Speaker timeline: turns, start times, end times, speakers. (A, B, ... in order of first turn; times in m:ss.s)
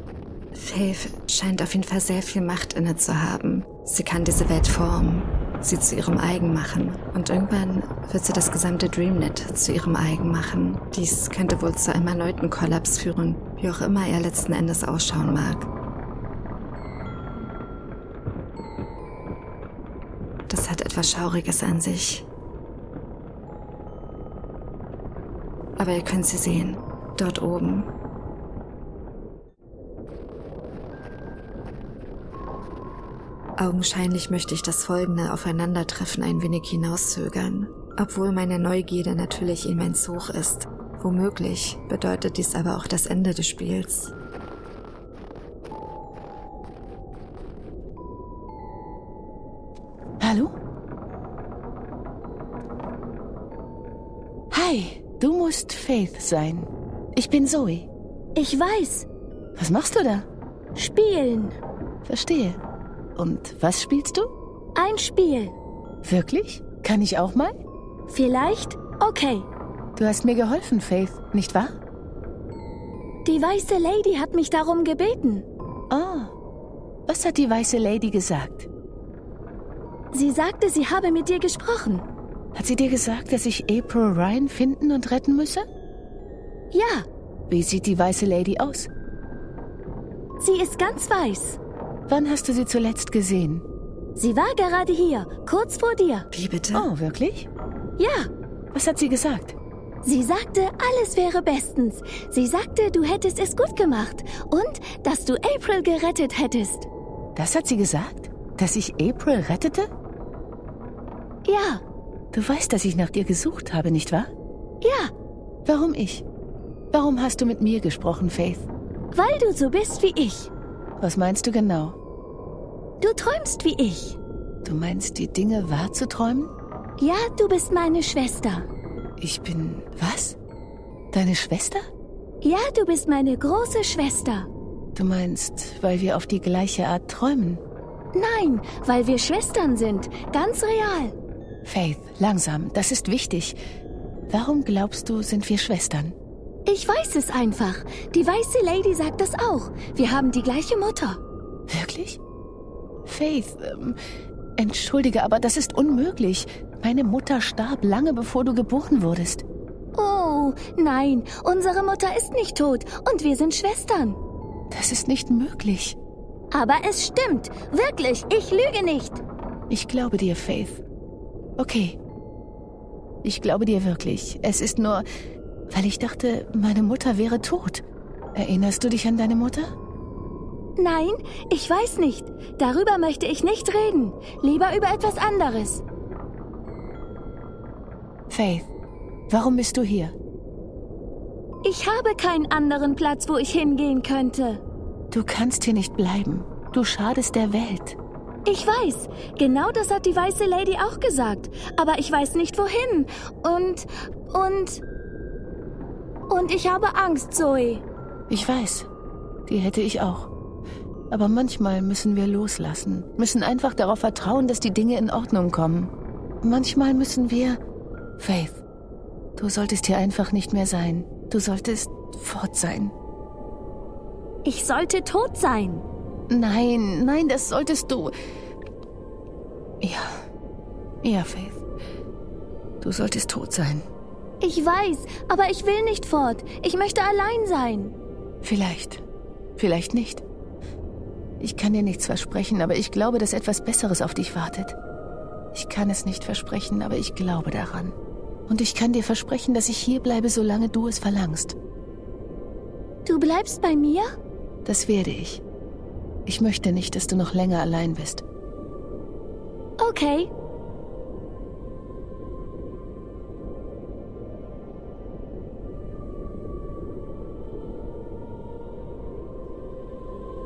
0:00.5-0:15.7 A
0:20.5-0:22.2 A
0:25.8-0:27.9 A
0:33.6-0:44.1 A
0:50.2-0:50.5 B
0:54.5-0:57.9 B
0:58.4-0:59.0 C
0:59.6-1:00.3 B
1:00.7-1:01.6 C
1:02.0-1:02.6 B
1:03.2-1:04.3 B
1:04.8-1:05.5 C
1:06.0-1:07.5 B
1:08.1-1:09.5 C
1:10.0-1:11.8 B
1:13.2-1:15.4 C
1:15.9-1:16.3 B
1:17.1-1:18.7 B
1:20.1-1:22.0 C
1:22.5-1:25.6 B
1:26.7-1:27.1 C
1:27.5-1:28.9 B
1:30.4-1:31.6 C
1:32.1-1:33.6 B
1:34.2-1:36.2 C
1:36.3-1:36.9 A
1:36.7-1:37.5 B
1:38.0-1:38.3 C
1:38.7-1:39.6 B
1:40.0-1:46.9 C
1:47.3-1:49.9 B
1:51.4-1:51.8 C
1:52.3-1:54.3 B
1:54.8-1:55.1 C
1:55.6-1:56.2 B
1:56.9-1:58.7 B
1:59.1-2:00.5 C
2:01.0-2:02.0 B
2:03.0-2:04.2 C
2:04.6-2:06.5 B
2:07.0-2:08.7 C
2:09.2-2:10.4 B
2:11.1-2:11.8 B
2:12.4-2:14.5 C
2:14.9-2:17.6 B
2:18.1-2:21.1 C
2:21.6-2:23.6 B
2:24.3-2:26.2 B
2:26.6-2:31.2 C
2:31.7-2:32.2 B
2:33.0-2:34.0 B
2:34.6-2:39.4 B
2:39.9-2:44.2 C
2:44.7-2:46.0 B
2:46.5-2:49.2 C
2:49.7-2:50.8 B
2:51.6-2:52.0 B
2:53.2-2:55.0 B
2:55.7-2:57.8 B
2:58.3-2:59.7 B
3:00.8-3:05.8 C
3:08.3-3:08.7 B
3:09.3-3:10.1 B
3:11.6-3:14.6 C
3:15.1-3:18.0 B
3:18.4-3:24.8 C
3:26.3-3:27.8 C
3:28.3-3:28.9 B
3:29.5-3:30.3 B
3:31.1-3:37.6 B
3:38.2-3:38.6 B
3:39.4-3:42.9 B
3:44.4-3:45.8 C
3:46.3-3:48.1 B
3:49.8-3:50.2 B
3:51.0-3:51.6 B
3:52.8-3:53.8 B
3:54.4-3:57.9 C
3:58.4-3:59.0 B
3:59.6-4:00.2 B
4:01.4-4:04.8 B
4:05.5-4:07.9 B
4:08.5-4:11.6 B
4:13.0-4:14.1 C
4:14.6-4:15.4 B
4:16.2-4:18.2 B
4:19.8-4:20.3 C